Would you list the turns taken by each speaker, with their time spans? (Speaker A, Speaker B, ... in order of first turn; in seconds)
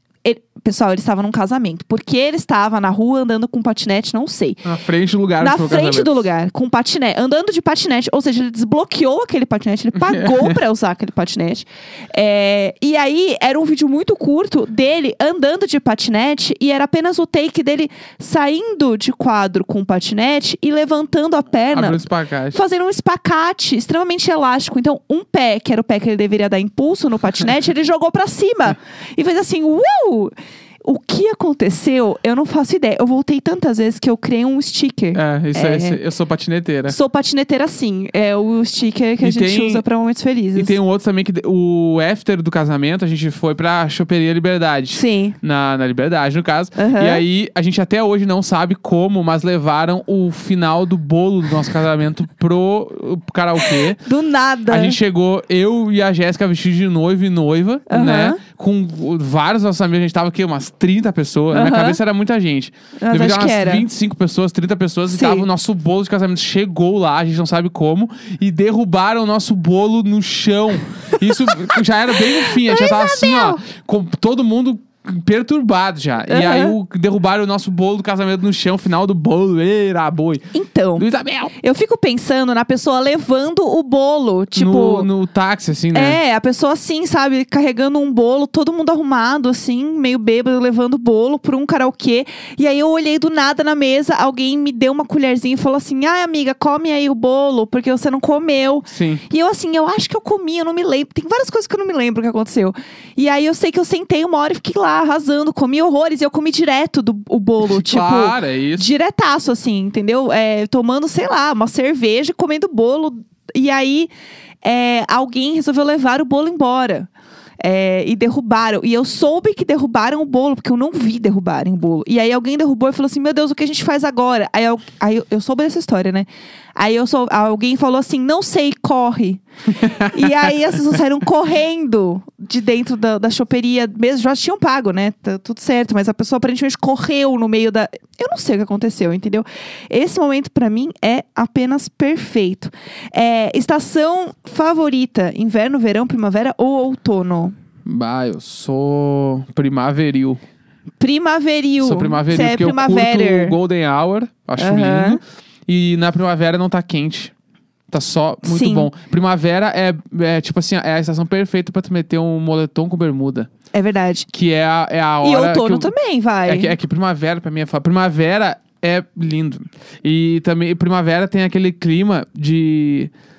Speaker A: 0.2-4.7, 5.4-36.0, 36.9-40.8, 44.9-45.4, 46.8-47.2, 53.8-55.0, 57.9-58.4, 61.5-62.0, 63.0-63.9, 65.1-65.5, 72.4-73.6, 76.3-76.8, 80.5-81.1, 81.6-85.1, 85.9-114.1, 114.6-147.5, 151.0-153.6, 154.6-155.2, 158.4-158.9, 163.7-164.3, 165.2-166.7
Speaker B: 4.6-6.2, 10.0-10.6, 21.7-22.6, 35.1-37.0, 39.2-39.8, 40.5-54.0, 54.7-80.5, 81.0-81.5, 84.5-86.2, 98.9-99.2, 107.6-108.9, 129.8-130.5, 147.8-150.4, 151.8-157.3, 157.9-163.5, 164.3-165.9, 166.4-173.1